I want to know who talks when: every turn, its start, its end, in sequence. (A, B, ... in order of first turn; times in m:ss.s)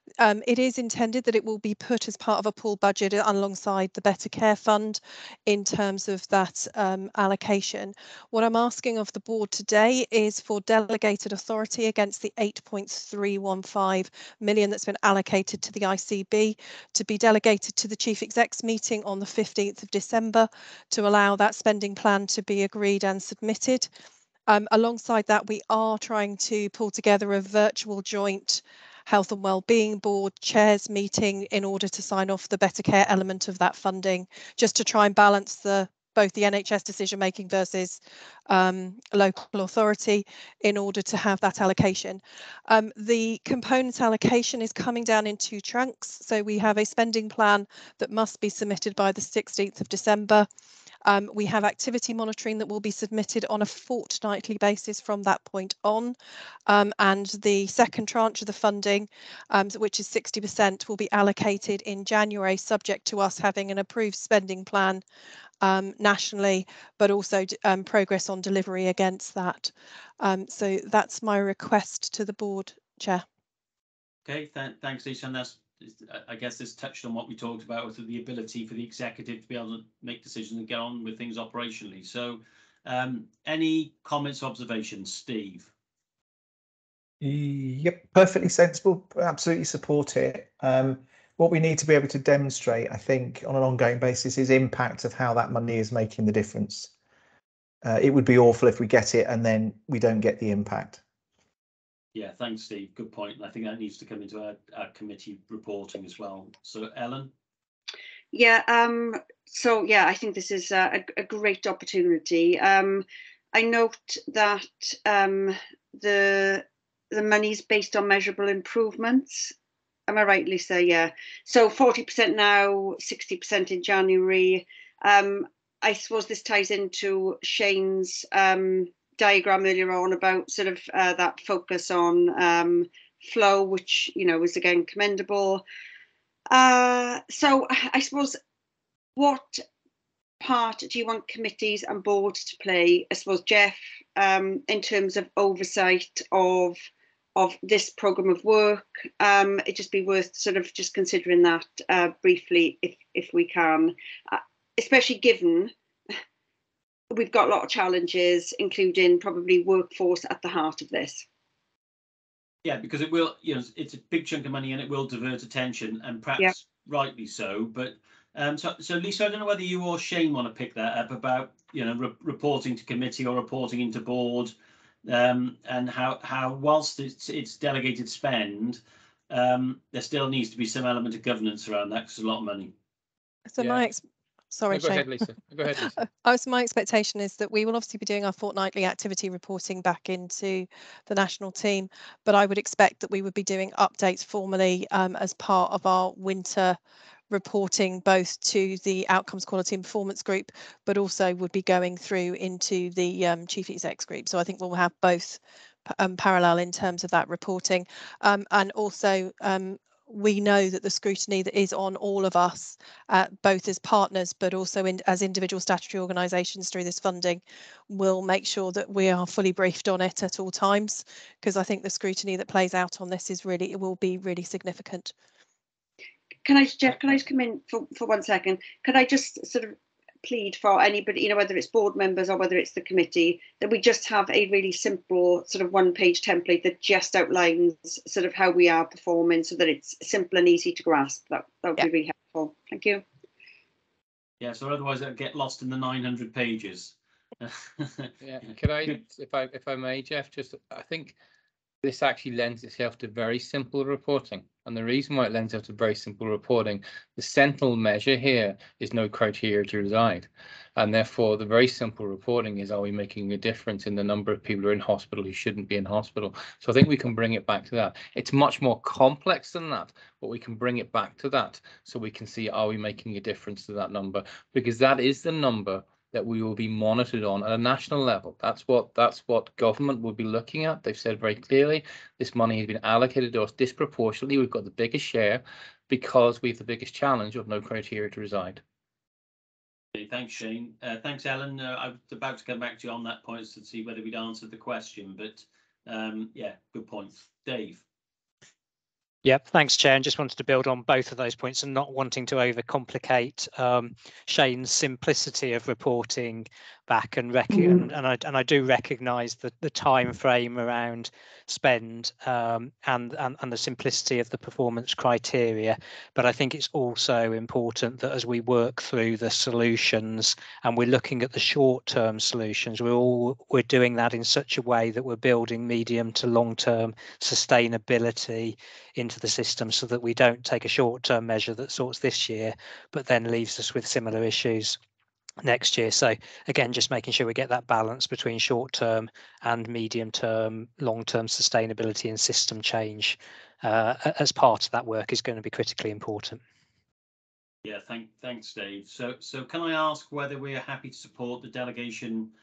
0:00.2-0:23.9 A
0:24.5-0:50.5 A
0:51.0-0:56.2 A
0:56.7-1:05.0 A
1:05.6-1:13.2 A
1:14.2-1:25.7 B
1:27.2-1:36.9 C
1:37.8-1:41.0 C
1:42.1-1:47.3 B
1:48.3-1:59.5 D
2:00.1-2:15.6 D
2:16.5-2:18.4 D
2:19.2-2:19.6 D
2:20.4-2:26.8 D
2:27.4-2:35.7 D
2:37.1-2:41.2 D
2:42.6-2:54.5 B
2:55.0-3:02.7 B
3:03.5-3:16.8 A
3:03.6-3:03.8 E
3:04.7-3:05.9 E
3:17.3-3:45.1 A
3:46.4-4:03.0 D
4:04.4-4:08.1 B
4:08.2-4:11.2 E
4:11.8-4:48.6 E
4:49.9-4:57.8 B
4:59.2-5:34.8 F
5:35.4-5:46.4 F
5:47.6-5:52.3 B